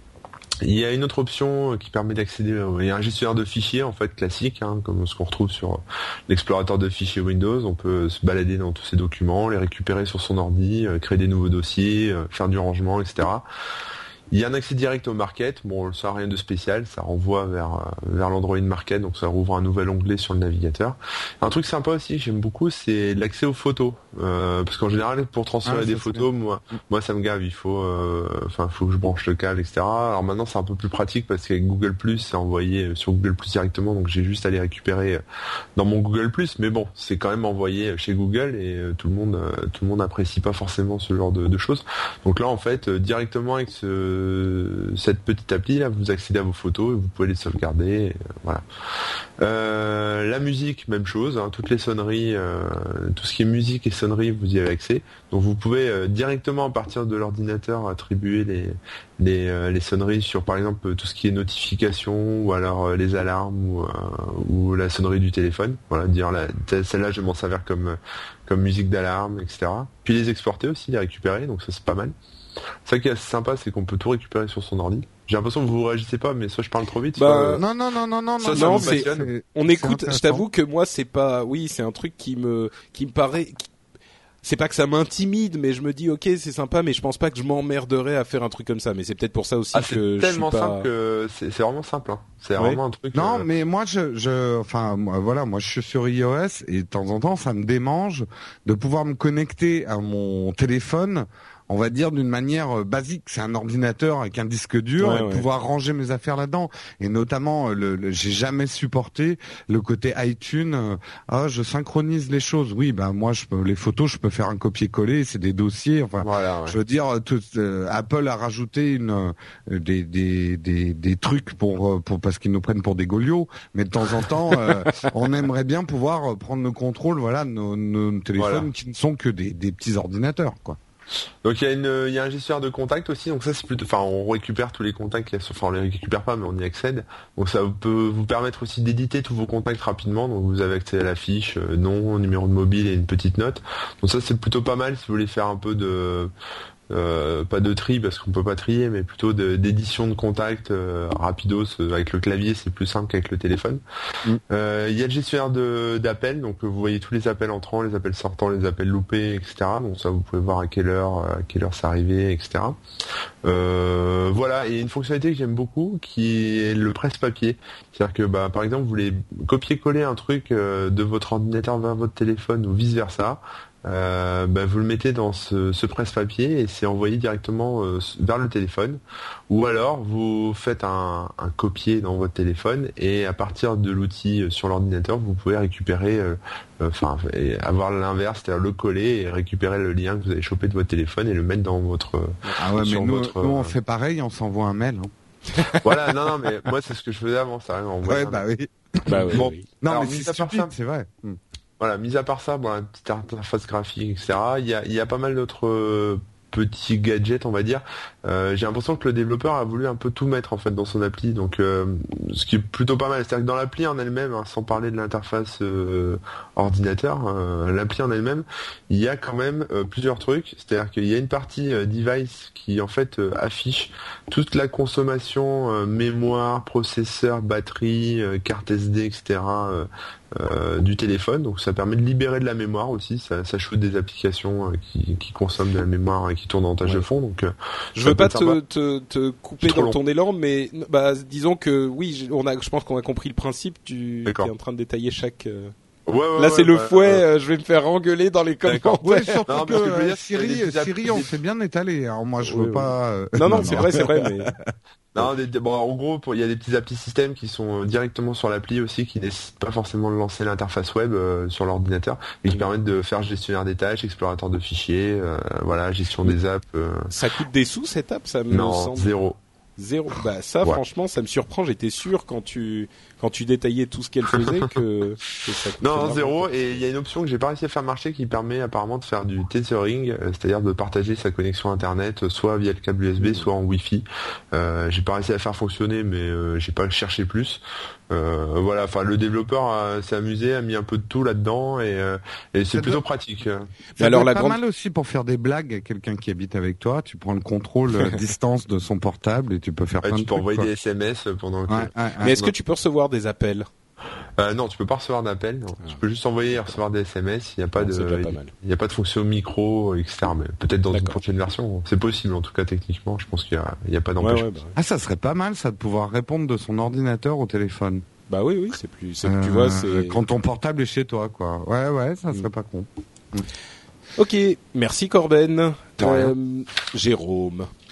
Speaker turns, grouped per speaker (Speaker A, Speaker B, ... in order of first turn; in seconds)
Speaker A: 0.6-13.4, 14.3-35.2, 35.8-48.6, 49.4-72.1, 72.8-77.6, 78.4-79.3, 89.7-93.5, 116.2-116.8, 128.4-128.7, 131.4-146.3, 146.9-153.8, 154.5-162.8, 163.4-193.7, 195.7-198.4, 199.3-200.7, 201.8-238.6, 239.6-240.0, 244.3-244.5, 246.1-247.2, 248.7-251.3, 253.5-253.8, 255.2-267.1, 268.5-269.4, 275.8-293.7, 300.0-302.5, 304.4-314.5, 326.0-326.3
Speaker B: 25.6-26.3, 77.6-80.4, 93.1-130.8, 192.6-195.1, 198.0-201.4, 249.0-254.7, 292.7-293.0, 294.0-300.7, 301.7-302.4, 314.8-318.0, 319.2-323.5
Speaker C: 77.2-77.6, 78.5-83.7, 84.4-90.9, 105.0-105.5, 199.1-199.7, 237.9-245.7, 246.4-249.5, 252.4-254.5, 267.1-269.1, 269.8-276.9, 283.2-283.5, 294.0-294.6, 302.2-303.7, 307.8-308.5, 310.9-311.2, 314.2-314.8, 318.3-320.2, 324.2-327.7